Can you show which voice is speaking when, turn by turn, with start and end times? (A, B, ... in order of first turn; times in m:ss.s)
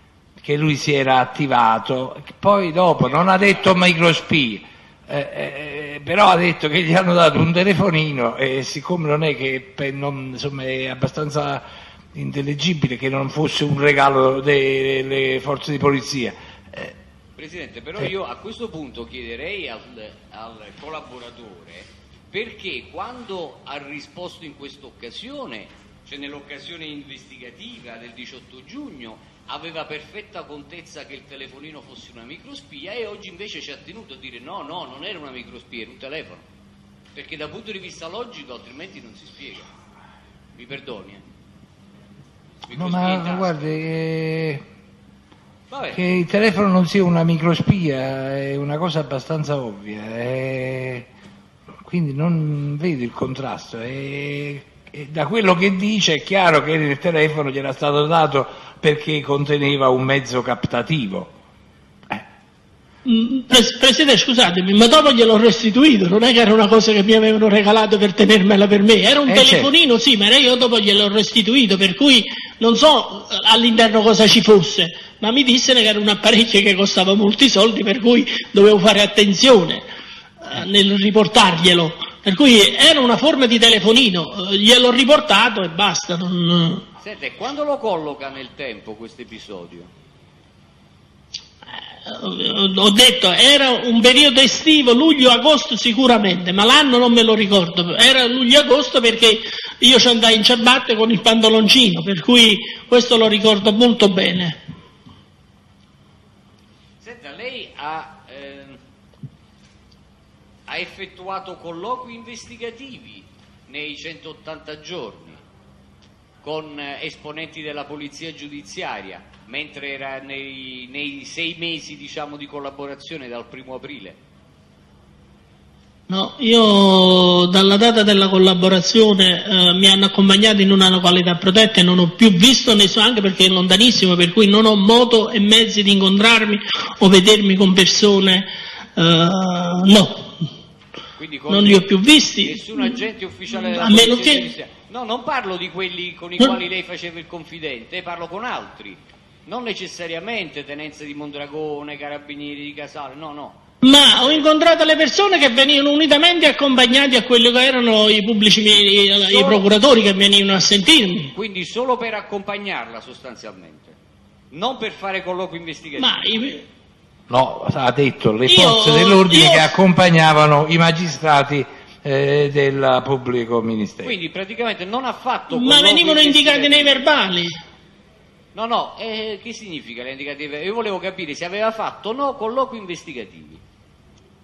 0:00.4-0:16.9 A
0:03.0-0:03.7 B
0:17.4-0:36.4 B
0:37.2-0:39.7 B
0:40.5-0:41.2 B
0:42.6-0:43.7 B
0:42.7-0:44.6 A
0:45.7-0:46.0 B
0:45.9-0:51.1 A
0:51.8-1:01.3 A
1:03.0-1:19.8 C
1:09.3-1:09.7 A
1:20.4-1:26.8 C
1:27.0-1:29.9 B
1:32.1-1:44.6 C
1:47.0-1:48.8 B
1:50.7-1:55.4 B
1:56.4-2:04.2 B
2:06.1-2:20.4 C
2:21.2-2:21.9 B
2:21.5-2:23.0 C
2:22.4-2:34.4 B
2:23.5-2:24.5 C
2:33.8-2:41.3 C
2:39.1-2:39.6 B
2:41.3-2:44.0 B
2:44.5-2:46.2 B
2:46.0-2:46.6 C
2:47.3-2:54.1 A
2:48.5-2:49.7 C
2:54.0-2:57.1 B
2:55.5-2:57.6 C
2:58.5-3:03.6 B